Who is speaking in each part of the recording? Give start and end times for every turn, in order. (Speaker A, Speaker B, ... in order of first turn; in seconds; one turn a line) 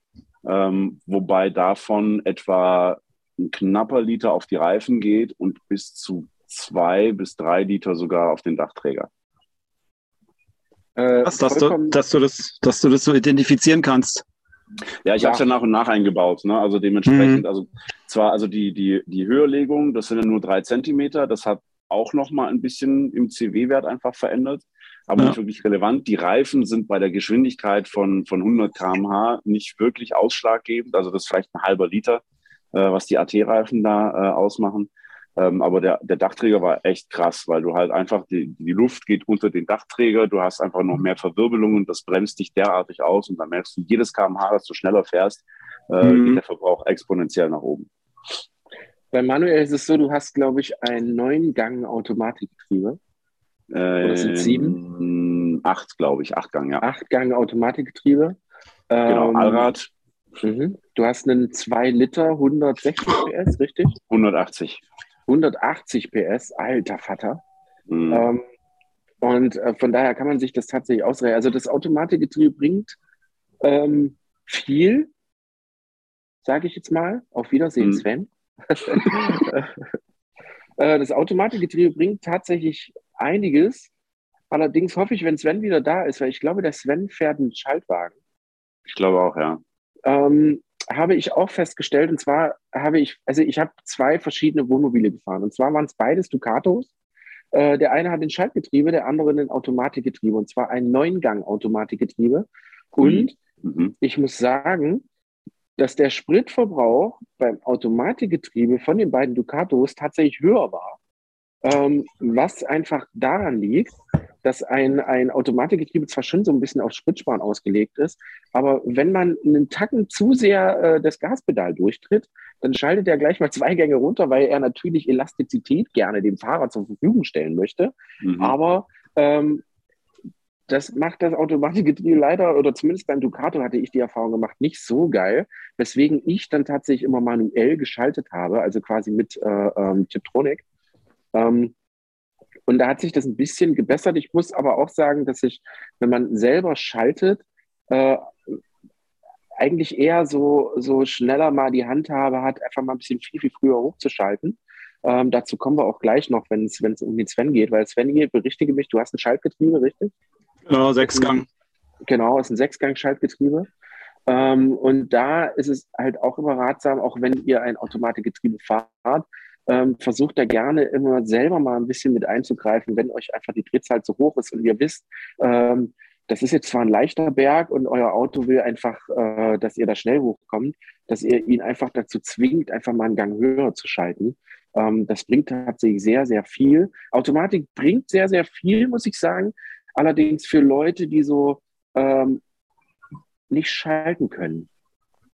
Speaker A: 0.4-9.1
Speaker B: 11.0-12.0
Speaker C: 11.2-14.2
Speaker A: 15.1-32.2
Speaker C: 17.1-17.4
Speaker A: 32.7-47.9
Speaker C: 46.0-46.4
Speaker B: 49.1-53.0
Speaker A: 53.7-56.8
Speaker B: 54.0-54.8
Speaker B: 56.8-58.4
Speaker B: 58.9-59.7
Speaker A: 59.1-59.9
Speaker B: 60.4-64.0
Speaker A: 64.1-64.8
Speaker B: 65.3-67.4
Speaker A: 67.9-68.3
Speaker B: 68.1-68.4
Speaker B: 69.2-73.0
Speaker B: 73.6-75.1
Speaker B: 76.4-79.8
Speaker B: 80.8-83.9
Speaker B: 84.5-88.2
Speaker A: 88.9-89.6
Speaker B: 90.1-96.9
Speaker B: 97.5-103.3
Speaker A: 103.0-104.0
Speaker B: 104.0-105.0
Speaker B: 105.8-111.0
Speaker B: 111.6-129.6
Speaker A: 128.2-128.6
Speaker B: 130.7-140.6
Speaker B: 141.3-141.8
Speaker B: 142.7-148.6
Speaker B: 149.6-160.1
Speaker C: 160.7-161.5
Speaker B: 161.1-161.4
Speaker B: 162.1-163.7
Speaker B: 164.3-192.4
Speaker B: 193.5-194.7